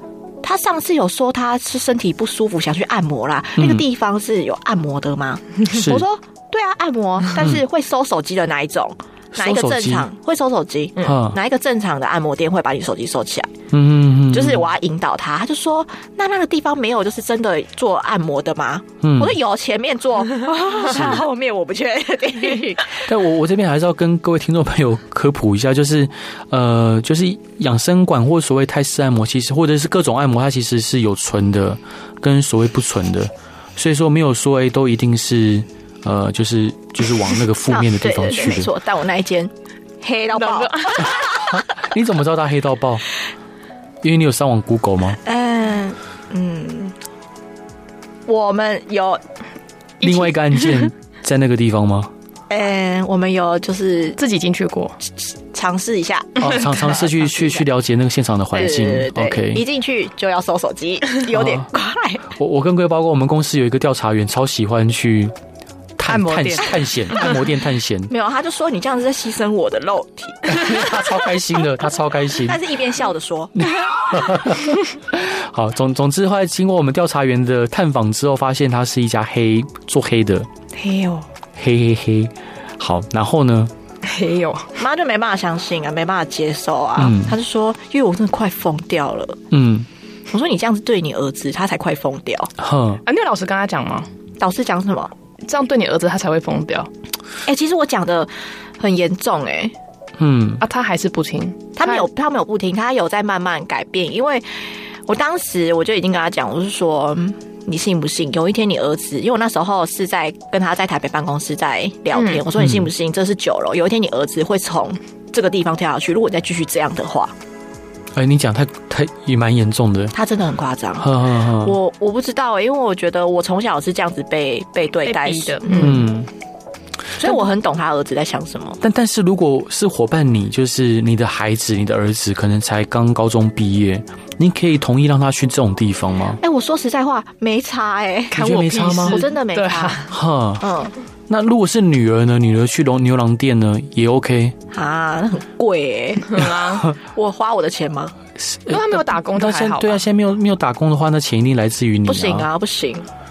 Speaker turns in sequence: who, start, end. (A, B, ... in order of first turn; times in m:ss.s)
0:00.4-0:13.5 A
0:03.6-0:03.8 B
0:05.7-0:06.0 B
0:09.3-0:10.1 B
0:11.0-0:11.4 B
0:13.7-0:14.7 B
0:14.3-0:23.1 A
0:19.0-0:19.4 B
0:20.9-0:21.2 B
0:23.1-0:38.7 B
0:37.7-0:41.6 A
0:40.4-0:41.2 C
0:41.5-0:43.0 B
0:44.0-0:45.2 B
0:45.2-0:47.0 A
0:48.3-0:49.2 A
0:50.0-0:52.1 B
0:50.0-0:50.8 C
0:52.5-0:54.2 A
0:54.2-0:55.0 C
0:55.2-0:57.7 A
0:56.4-0:59.6 B
0:58.5-1:02.2 A
1:01.3-1:01.7 B
1:02.4-1:05.3 B
1:06.0-1:08.1 B
1:06.1-1:06.7 C
1:08.1-1:11.0 A
1:10.5-1:12.6 B
1:12.4-1:13.7 A
1:13.6-1:20.5 B
1:20.7-1:21.3 A
1:21.6-1:23.7 B
1:24.0-1:24.8 C
1:24.8-1:29.4 A
1:27.0-1:27.4 B
1:29.5-1:29.9 B
1:30.3-1:32.5 A
1:32.6-1:33.0 B
1:33.1-1:34.1 C
1:34.4-1:35.1 A
1:35.4-1:36.9 C
1:37.5-1:39.8 A
1:40.2-1:40.6 B
1:40.6-1:42.1 C
1:41.8-1:57.4 A
1:52.2-1:52.4 C
1:52.6-1:52.9 B
1:58.2-2:00.1 B
2:00.1-2:06.0 A
2:01.0-2:01.8 B
2:05.0-2:06.0 C
2:05.8-2:06.3 B
2:07.2-2:08.8 A
2:08.8-2:16.4 B
2:16.4-2:20.9 A
2:18.3-2:19.2 B
2:18.4-2:20.1 C
2:20.1-2:20.7 B
2:21.3-2:24.6 B
2:24.7-2:28.2 A
2:26.3-2:26.8 C
2:28.4-2:32.5 B
2:28.7-2:30.0 C
2:32.1-2:33.1 A